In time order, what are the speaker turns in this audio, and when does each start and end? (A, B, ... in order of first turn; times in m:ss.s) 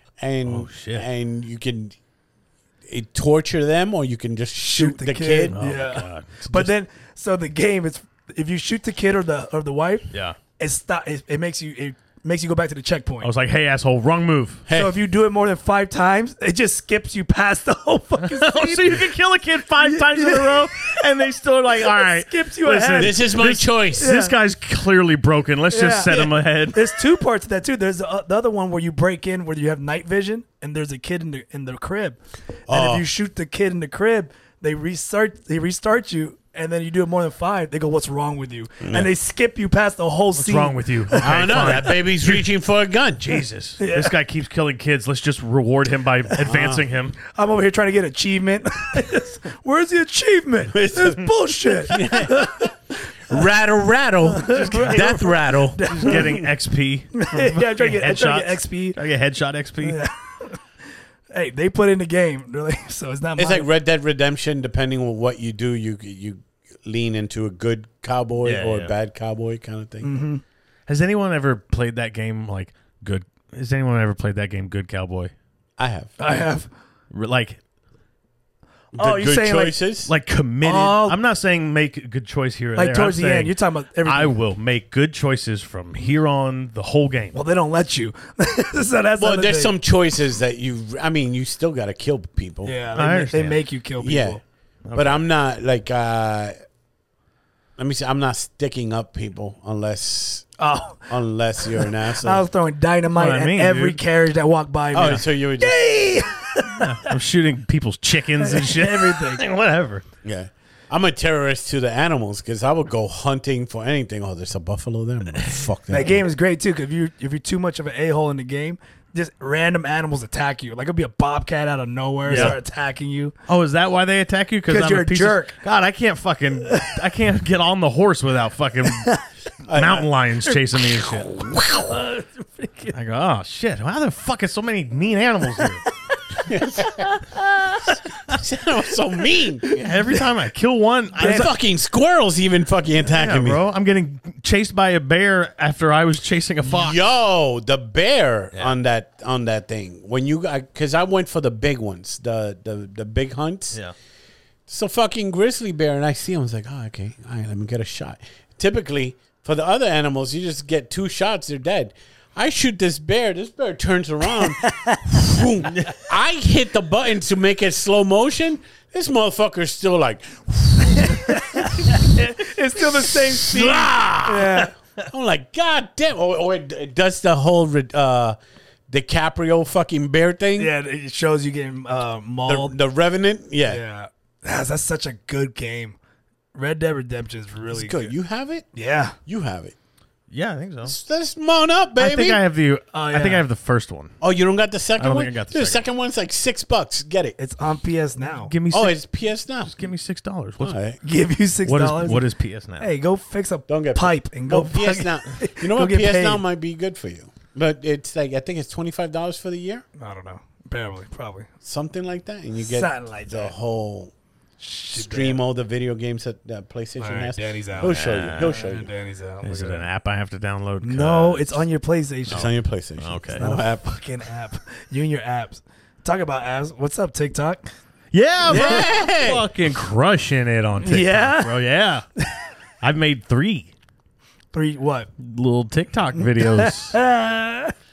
0:00.2-0:02.0 A
0:00.4-0:01.1 B
0:02.9-0:05.6 A
0:04.6-0:13.3 C
0:05.5-0:06.5 B
0:10.1-0:10.4 B
0:13.2-0:14.6 B
0:14.7-0:15.0 A
0:14.7-0:19.1 C
0:18.2-0:27.0 B
0:19.8-0:20.8 C
0:21.8-0:23.4 C
0:23.0-0:24.2 A
0:24.0-0:24.3 C
0:25.7-0:41.9 C
0:32.7-0:33.1 A
0:38.8-0:39.1 A
0:40.4-0:42.4 B
0:41.2-0:43.4 A
0:43.2-0:47.2 B
0:43.8-0:44.1 C
0:46.4-0:46.8 A
0:47.3-0:52.7 C
0:50.7-0:51.2 A
0:51.8-0:52.7 A
0:53.3-0:56.5 A
0:54.3-0:56.2 C
0:55.9-1:00.0 B
0:57.1-0:59.0 C
0:59.8-1:00.6 C
1:01.3-1:03.7 C
1:03.4-1:10.1 A
1:08.4-1:08.9 B
1:10.0-1:10.4 C
1:10.9-1:15.3 B
1:15.8-1:16.1 A
1:16.2-1:16.7 C
1:17.1-1:17.6 B
1:18.9-1:20.1 A
1:19.0-1:19.8 C
1:20.1-1:23.5 B
1:20.6-1:21.2 C
1:22.8-1:24.4 C
1:24.0-1:27.4 B
1:27.3-1:29.8 C
1:29.2-1:32.8 A
1:32.6-1:34.4 C
1:33.0-1:33.6 B
1:34.0-1:34.4 A
1:34.8-1:35.2 B
1:34.9-1:36.5 A
1:37.8-1:40.5 A
1:40.6-1:41.1 C
1:41.1-1:42.4 A
1:41.8-1:47.1 C
1:43.2-1:44.0 B
1:44.9-1:45.8 A
1:46.7-1:50.0 B
1:48.4-1:49.4 C
1:50.2-1:56.2 A
1:55.9-2:03.3 C
2:02.3-2:02.6 A
2:02.3-2:02.6 B
2:03.5-2:11.3 B
2:04.7-2:05.6 C
2:09.7-2:10.1 A
2:10.5-2:13.0 C
2:12.9-2:15.8 B
2:16.4-2:18.0 C
2:16.4-2:17.2 A
2:18.2-2:19.6 A
2:19.6-2:20.2 C
2:19.8-2:21.5 B
2:21.2-2:21.5 C
2:21.2-2:23.6 A
2:23.1-2:27.1 B
2:26.6-2:33.8 A
2:34.7-2:52.0 A
2:44.6-2:45.0 C
2:50.9-2:54.7 C
2:53.1-2:58.4 A
2:58.9-3:00.7 A
3:00.6-3:02.8 C
3:02.5-3:03.8 A
3:03.7-3:06.0 C
3:06.5-3:08.1 C
3:07.7-3:08.7 A
3:08.7-3:09.2 C
3:09.3-3:09.8 A
3:10.3-3:11.0 B
3:10.8-3:12.4 A
3:12.0-3:14.1 B
3:12.9-3:13.4 C
3:14.2-3:17.4 A
3:15.0-3:15.9 B
3:17.4-3:18.5 C
3:18.2-3:19.0 B
3:18.7-3:19.8 A
3:19.6-3:20.8 B
3:20.6-3:21.0 A
3:21.0-3:22.2 C
3:21.7-3:22.9 B
3:22.8-3:26.4 C
3:23.7-3:29.8 A
3:30.0-3:31.5 C
3:31.6-3:34.1 A
3:32.6-3:33.5 C
3:34.6-3:35.4 C
3:34.9-3:38.9 A
3:37.0-3:39.8 C
3:37.8-3:38.5 B
3:39.4-3:41.6 B
3:40.8-3:42.5 C
3:42.3-3:44.0 A
3:42.3-3:43.5 B
3:43.4-3:47.7 C
3:48.1-3:52.0 B
3:48.4-3:49.5 A
3:50.8-3:51.6 C
3:52.8-3:53.7 B
3:54.5-3:55.1 C
3:55.2-3:57.0 B
3:56.2-3:57.7 C